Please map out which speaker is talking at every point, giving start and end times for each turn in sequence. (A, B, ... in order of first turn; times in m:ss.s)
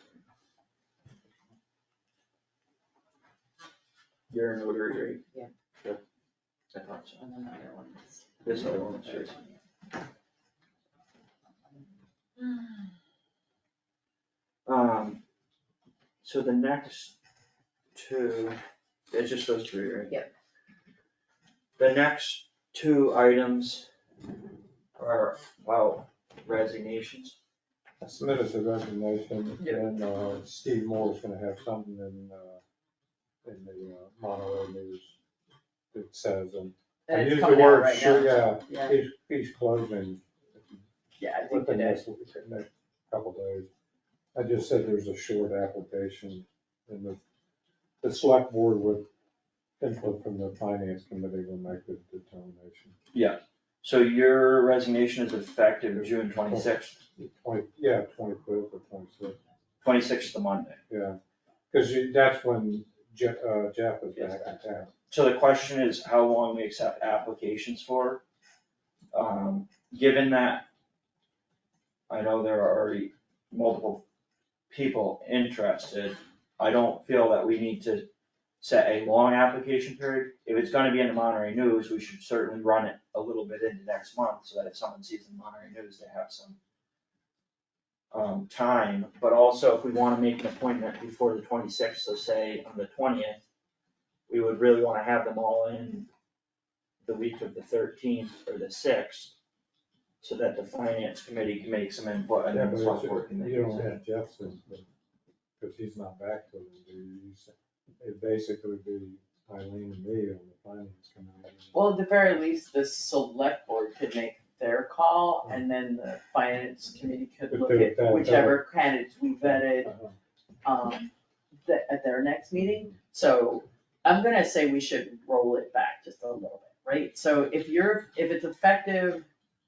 0:04.3-0:05.2 A
0:06.7-0:07.2 A
0:07.2-0:09.4 B
0:08.4-0:09.3 A
0:14.7-0:15.2 A
0:16.2-0:17.1 A
0:18.0-0:18.6 A
0:19.1-0:20.2 A
0:21.8-0:23.9 A
0:25.0-0:27.4 A
0:28.0-0:32.6 C
0:29.6-0:29.9 B
0:33.4-0:35.2 C
0:35.9-0:40.8 C
0:37.1-0:39.0 B
0:41.2-0:42.0 B
0:41.5-0:43.7 C
0:44.4-0:47.2 C
0:48.0-0:49.1 C
0:49.8-0:53.0 C
0:53.1-0:57.0 A
0:56.0-0:59.4 C
0:59.8-1:00.8 A
1:00.9-1:01.2 C
1:01.7-1:04.9 C
1:04.1-1:04.6 A
1:05.1-1:08.2 A
1:09.1-1:10.6 A
1:12.1-1:14.0 A
1:14.7-1:18.1 A
1:18.6-1:26.6 A
1:28.1-1:33.4 A
1:34.3-1:36.1 A
1:37.0-1:39.4 A
1:40.2-1:44.0 A
1:42.5-1:44.9 C
1:45.6-1:51.8 C
1:51.7-1:59.9 B
1:57.5-1:58.6 C
1:59.4-2:00.2 C
2:00.6-2:01.1 B
2:01.6-2:09.2 B
2:02.6-2:02.9 C